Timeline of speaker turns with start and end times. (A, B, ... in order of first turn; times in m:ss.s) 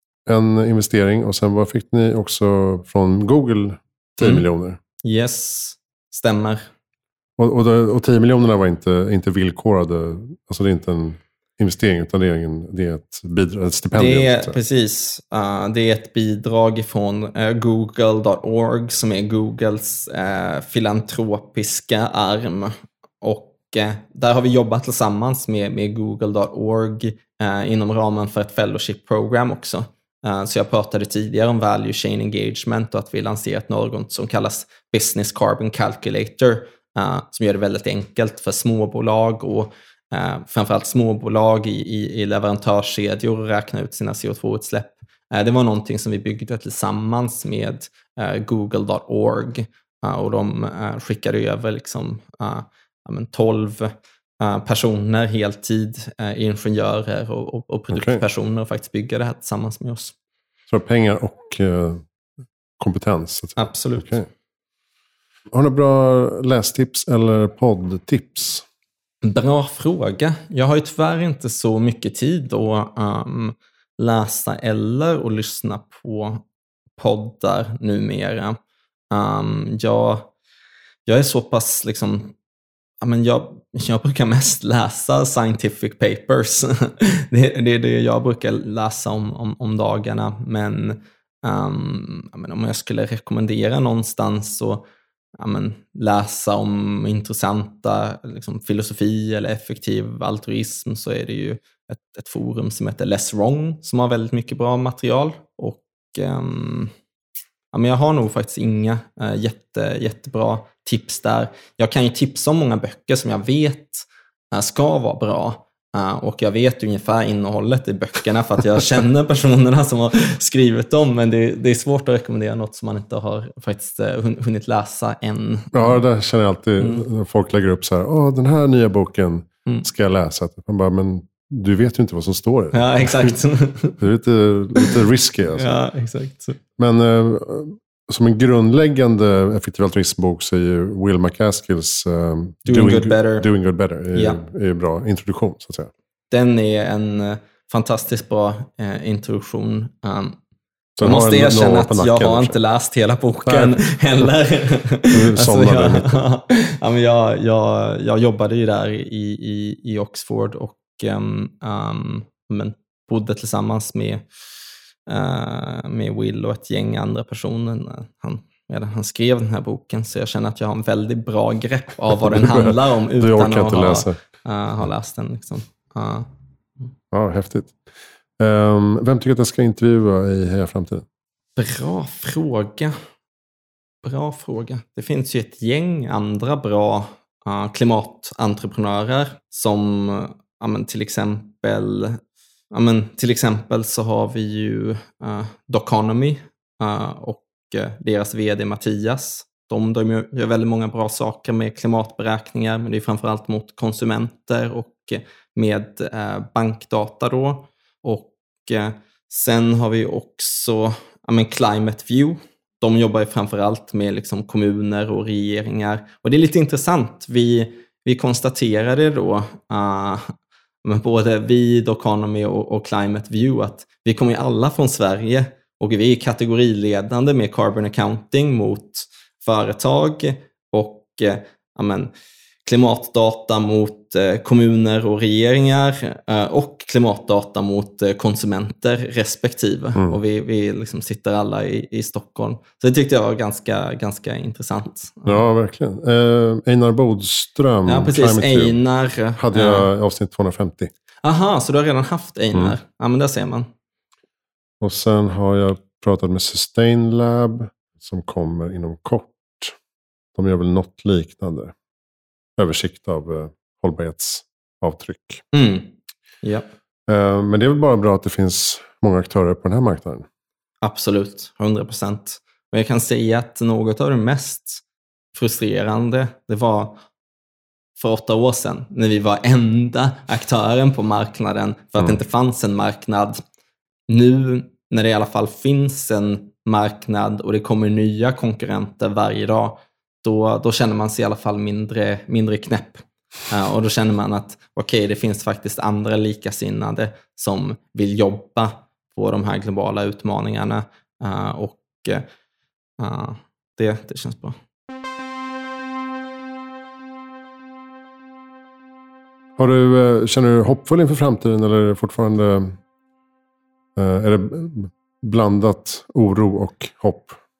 0:00.2-0:04.8 A
0:05.0-0:06.7 B
0:07.4-0:14.6 A
0:13.9-1:00.1 B
0:57.9-0:58.2 A
1:00.7-1:02.0 A
1:02.8-1:04.3 A
1:03.6-1:04.1 B
1:05.5-1:08.6 A
1:09.2-1:16.4 B
1:17.0-1:18.6 B
1:19.1-1:20.3 B
1:21.0-1:22.3 B
1:23.0-1:34.9 B
1:35.4-1:46.9 B
1:47.7-2:06.0 B
2:05.7-2:13.3 A
2:12.7-2:14.0 B
2:14.0-2:15.8 A
2:15.6-2:16.6 B
2:16.8-2:25.9 A
2:22.6-2:23.5 B
2:24.1-2:24.4 B
2:26.3-2:30.4 B
2:31.0-2:32.6 A
2:31.0-2:44.2 B
2:33.5-2:33.8 A
2:35.1-2:36.2 A
2:45.1-2:56.3 B
2:52.1-2:54.2 A
2:57.1-2:57.8 A
2:58.4-3:01.0 A
3:01.6-3:02.9 B
3:04.0-3:12.2 B
3:12.7-3:40.3 B
3:40.8-3:52.1 B
3:52.6-4:05.4 B
4:05.2-4:08.8 A
4:07.8-4:09.9 B
4:09.4-4:10.9 A
4:11.2-4:13.7 B
4:14.8-4:19.8 A
4:20.3-4:21.7 A
4:22.6-4:25.4 A
4:25.5-4:26.6 B
4:27.1-4:30.2 A
4:30.8-4:37.0 B
4:38.0-4:43.4 B
4:44.1-5:02.3 B
5:03.0-5:04.6 B
5:09.6-5:12.8 A
5:14.0-5:17.4 A